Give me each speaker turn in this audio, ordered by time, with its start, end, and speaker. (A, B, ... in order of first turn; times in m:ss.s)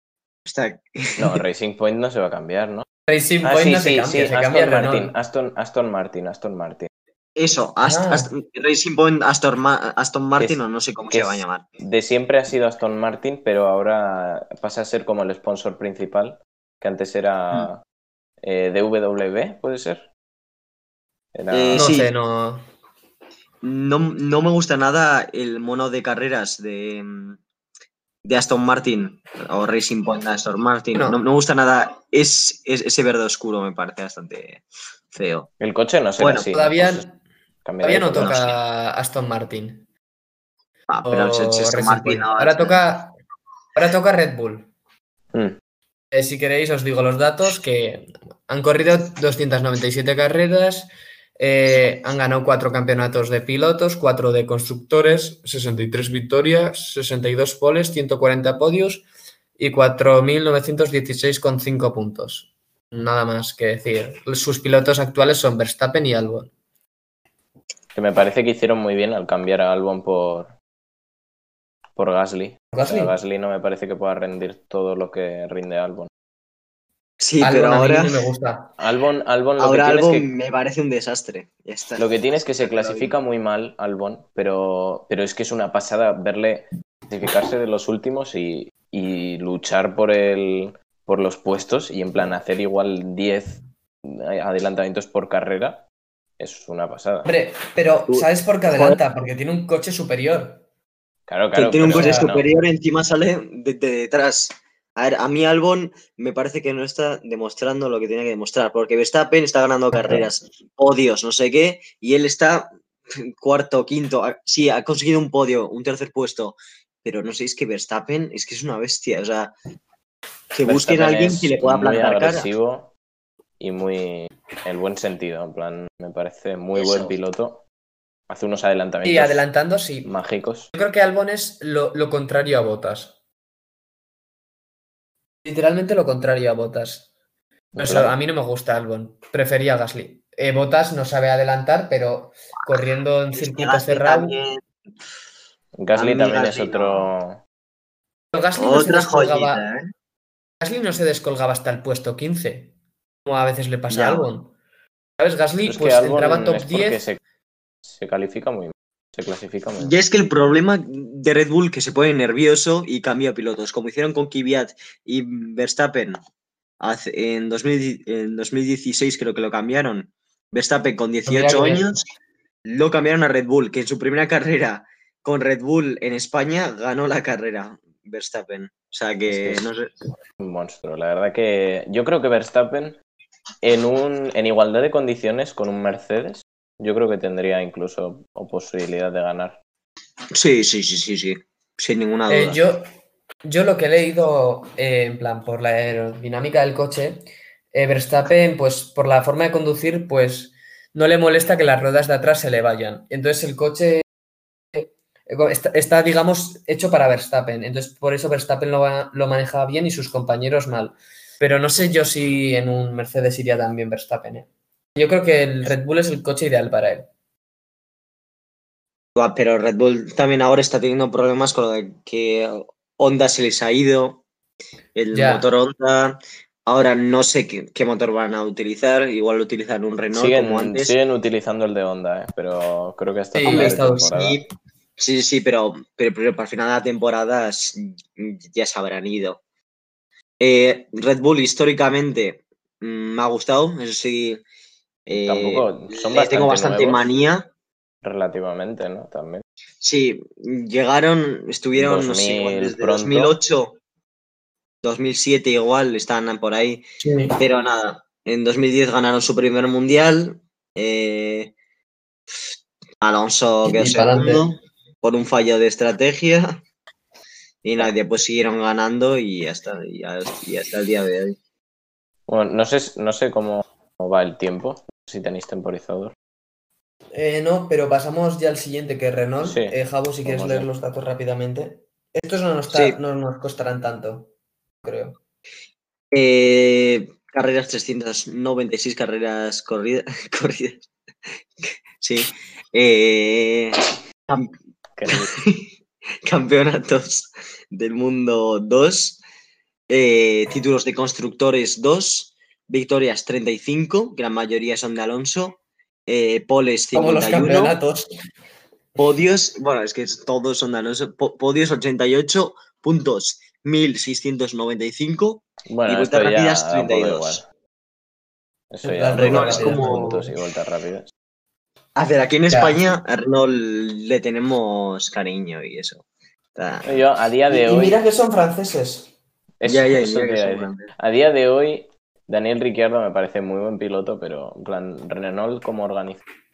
0:00.4-0:01.4 A
0:01.2-0:02.9 B
0:03.1-0:05.1 C
0:03.4-0:06.9 B
0:07.4-0:11.6 A
0:07.8-0:08.3 C
0:11.1-0:17.8 B
0:18.4-0:20.1 B
0:21.4-0:22.0 B
0:21.5-0:22.1 A
0:21.8-0:22.6 C
0:23.6-0:27.4 A
0:28.2-0:35.5 A
0:35.6-0:37.0 B
0:36.2-0:36.5 A
0:36.5-0:37.2 C
0:37.6-0:38.4 B
0:37.8-0:39.9 C
0:38.2-0:38.5 A
0:40.9-0:42.8 A
0:41.0-0:43.1 C
0:43.8-0:44.7 C
0:46.1-0:59.1 C
0:59.6-1:06.5 C
1:08.0-1:10.5 B
1:12.0-1:16.1 B
1:12.7-1:13.1 C
1:17.2-1:18.3 A
1:17.4-1:18.7 C
1:18.8-1:20.3 B
1:19.6-1:23.1 A
1:22.0-1:35.9 B
1:36.4-1:37.3 B
1:37.3-1:40.6 C
1:38.1-1:39.0 A
1:41.3-1:42.5 B
1:41.5-1:59.5 A
1:41.9-1:42.4 C
2:00.5-2:02.5 A
2:00.6-2:02.9 B
2:03.6-2:07.6 B
2:06.8-2:07.2 A
2:08.3-2:09.4 B
2:09.0-2:10.1 C
2:10.0-2:10.7 B
2:10.7-2:13.1 C
2:15.4-2:17.1 C
2:17.7-2:18.1 B
2:17.8-2:24.4 C
2:23.3-2:24.6 A
2:25.8-2:27.4 B
2:26.0-2:27.1 A
2:28.3-2:29.6 C
2:28.6-2:29.9 A
2:30.6-2:34.5 C
2:33.9-2:34.3 A
2:35.2-2:37.0 C
2:35.7-2:37.2 B
2:37.8-2:39.9 B
2:39.8-2:46.2 A
2:46.8-2:52.0 A
2:51.3-2:51.9 C
2:52.7-2:59.9 A
2:59.3-2:59.6 B
3:00.4-3:03.0 B
3:03.6-3:09.6 B
3:10.3-3:12.6 A
3:12.3-3:12.9 C
3:13.4-3:24.0 C
3:24.7-3:37.1 C
3:39.2-3:44.2 A
3:45.0-3:51.0 A
3:45.1-3:45.5 C
3:50.1-3:54.4 B
3:53.4-3:54.2 C
3:53.5-3:54.5 A
3:55.0-3:59.4 A
4:00.4-4:04.4 A
4:05.1-4:07.5 A
4:05.2-4:07.0 B
4:08.0-4:09.4 B
4:09.8-4:13.8 A
4:11.7-4:13.4 B
4:14.8-4:16.8 A
4:17.0-4:17.4 C
4:17.4-4:21.5 A
4:23.0-4:26.6 A
4:23.6-4:24.4 C
4:27.6-4:31.4 A
4:32.3-4:36.1 B
4:37.1-4:44.3 C
4:39.4-4:40.7 B
4:42.7-4:43.0 A
4:44.8-4:45.2 C
4:46.1-4:50.9 A
4:51.6-4:54.5 A
4:55.0-4:55.3 B
4:55.1-4:55.7 A
4:56.2-4:59.2 A
4:59.9-5:07.8 A
5:06.9-5:08.1 C
5:09.0-5:17.4 A
5:15.7-5:17.5 B
5:18.7-5:21.1 B
5:18.8-5:20.3 C
5:19.2-5:20.3 A
5:22.0-5:26.0 A
5:22.5-5:22.8 C
5:26.6-5:27.0 A
5:26.8-5:28.0 B
5:27.5-5:29.1 C
5:29.6-5:36.2 B
5:29.6-5:30.9 A